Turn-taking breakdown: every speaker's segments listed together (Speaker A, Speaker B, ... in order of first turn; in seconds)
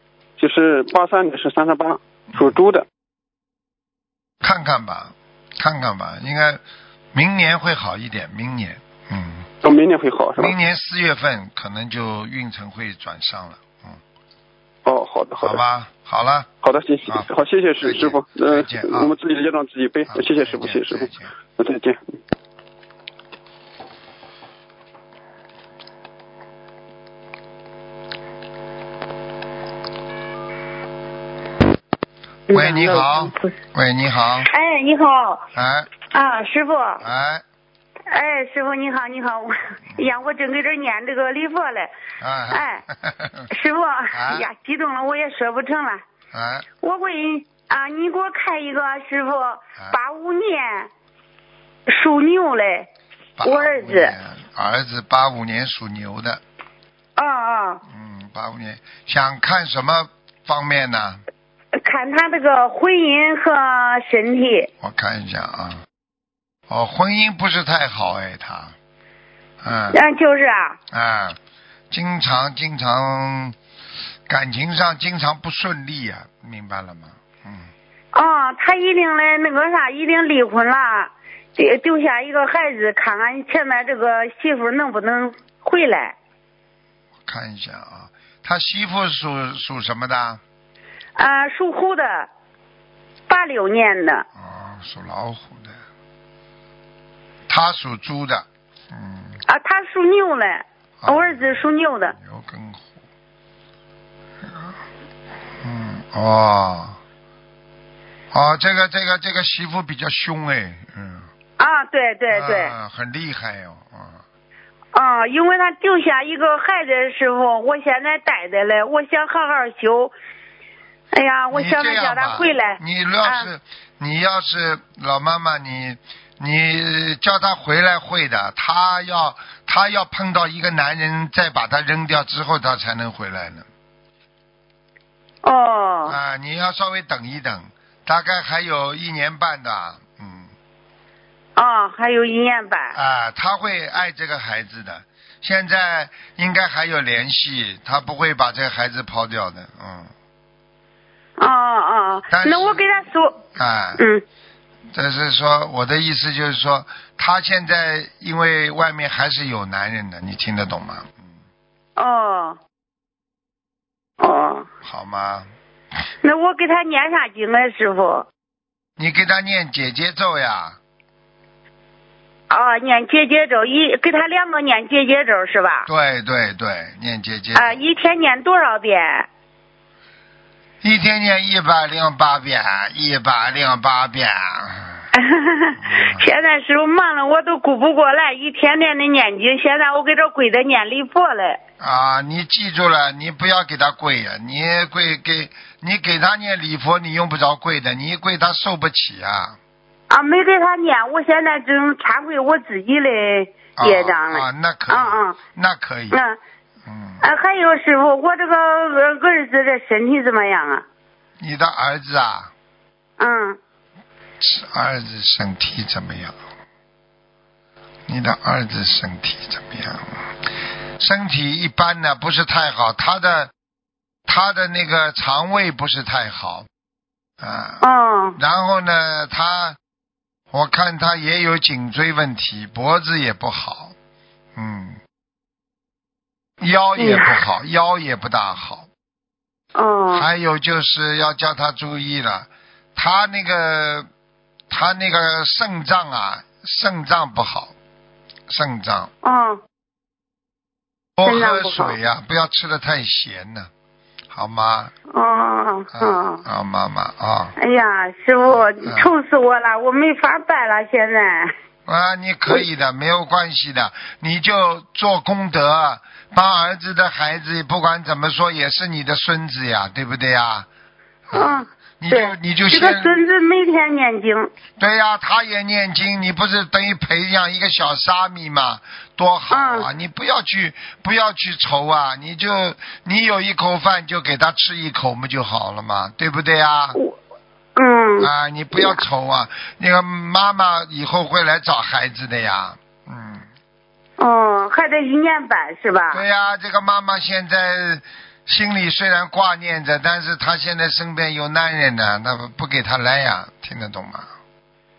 Speaker A: 0.4-2.8, 9.6-10.5, 14.8-15.6, 16.6-22.0
Speaker B: 4.4-6.6, 7.1-9.5, 10.4-14.0, 15.4-16.5, 17.8-19.1, 20.1-21.3, 32.5-34.5, 35.5-35.9, 37.0-37.4, 42.2-43.5, 44.1-44.5, 46.3-46.7, 53.4-56.4, 57.9-61.2, 64.8-65.8, 66.7-68.7, 69.6-70.0, 70.9-71.4, 71.9-73.6, 74.3-77.7, 87.2-90.4, 94.4-95.8, 97.5-99.4, 101.0-103.0, 104.4-104.8, 105.6-107.0, 108.3-111.3, 112.3-114.2, 121.5-133.7, 136.1-140.5, 142.9-150.1, 152.3-152.8, 153.5-154.0, 154.9-161.3, 164.8-165.5, 169.0-170.8, 175.9-177.9, 180.8-185.1, 185.8-186.2, 191.8-199.6, 203.8-206.2, 206.8-207.2, 211.4-212.5, 214.4-216.3, 218.1-220.3, 221.0-223.5, 224.3-226.7, 227.4-227.8, 228.3-229.8, 230.5-233.9, 234.6-235.0, 236.6-238.9, 240.1-244.1, 244.7-247.7, 248.5-249.1, 251.2-253.7, 254.3-254.9, 255.9-257.5, 258.5-259.1, 261.9-270.7, 271.3-273.2, 274.8-287.0, 288.2-293.4, 296.1-304.3
Speaker C: 32.5-33.5, 34.5-35.5, 36.1-37.0, 38.1-41.9, 42.5-42.8, 43.5-46.0, 46.8-50.9, 51.9-52.9, 53.4-54.1, 57.2-57.8, 61.8-64.7, 69.9-70.8, 78.1-86.1, 91.2-92.3, 93.3-94.2, 99.5-102.1, 111.6-112.7, 114.9-120.1, 121.1-123.5, 135.4-136.2, 141.6-142.9, 151.4-153.4, 154.0-154.2, 161.9-162.6, 164.2-164.7, 166.2-168.3, 172.5-175.9, 177.5-179.3, 185.1-191.6, 200.1-205.4, 206.1-206.4, 207.2-210.8, 213.2-213.6, 227.8-228.4, 237.0-237.4, 239.7-240.2, 249.2-249.6, 251.2-251.9, 255.1-256.4, 257.6-261.5, 271.3-274.5, 279.5-279.9, 287.8-289.0, 294.2-296.2